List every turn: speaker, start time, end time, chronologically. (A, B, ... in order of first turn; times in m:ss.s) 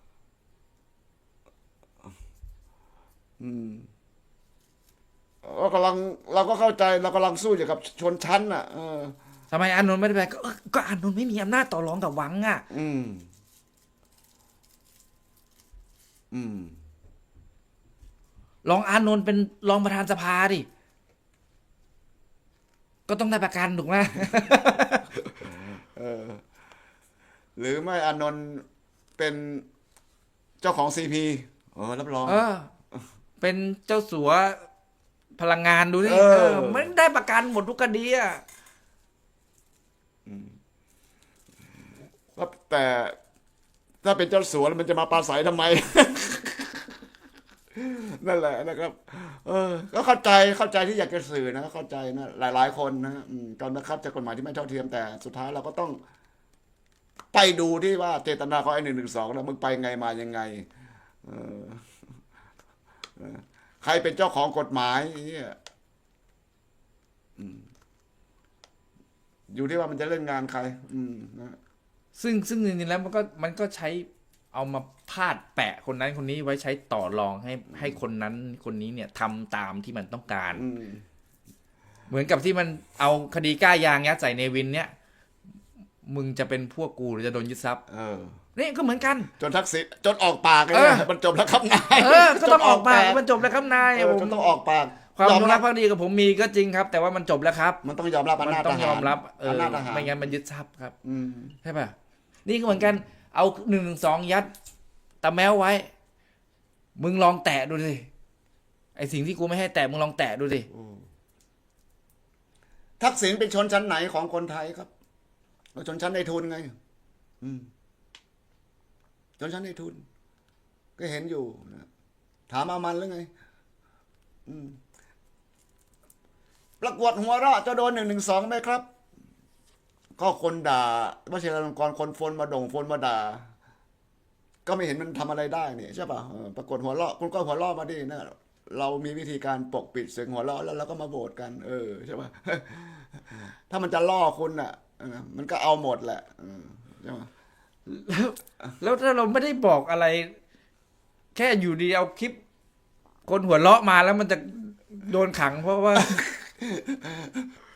0:03.4-0:03.9 A
0:05.4-0:09.2 A
0:09.5-0:12.6 B
0:12.7-0:13.3 A
0:16.3-0:16.8 A
0:18.6-0:20.7 B
0:23.1-0:25.2 B
0:25.4-0:26.4 A
0:27.6-0:28.6 A
0:29.2-0:29.7 A
0:30.6-0:32.4 A
0:32.2-0:32.7 B
0:33.4-0:34.6 B
0:35.4-0:38.4 B
0:36.0-0:36.9 A
0:40.3-0:40.6 A
0:42.4-0:43.2 A
0:44.0-0:46.9 A
0:47.8-0:56.0 A
0:57.3-1:00.7 A
1:01.2-1:01.9 A
1:03.2-1:05.6 A
1:07.4-1:07.7 A
1:09.5-1:11.6 A
1:12.2-1:20.6 B
1:20.6-1:21.0 A
1:22.1-1:24.9 B
1:26.0-1:27.8 B
1:27.9-1:28.4 A
1:28.6-1:29.3 B
1:29.4-1:33.3 A
1:30.7-1:31.1 B
1:32.0-1:34.5 B
1:33.9-1:35.6 A
1:35.2-1:37.8 B
1:37.8-1:40.3 A
1:38.4-1:41.0 B
1:41.0-1:41.6 A
1:41.6-1:41.9 B
1:42.5-1:44.5 B
1:45.2-1:45.9 B
1:47.0-1:48.1 B
1:49.0-1:50.7 B
1:50.7-1:51.0 A
1:53.0-1:54.9 A
1:55.8-1:56.7 A
1:57.4-1:57.7 A
1:59.4-2:00.0 A
2:01.0-2:01.9 A
2:02.5-2:03.3 A
2:04.5-2:04.8 A
2:06.8-2:08.8 A
2:10.2-2:13.5 A
2:14.7-2:27.3 A
2:27.9-2:30.4 B
2:31.4-2:32.4 B
2:33.3-2:36.2 B
2:36.0-2:37.4 A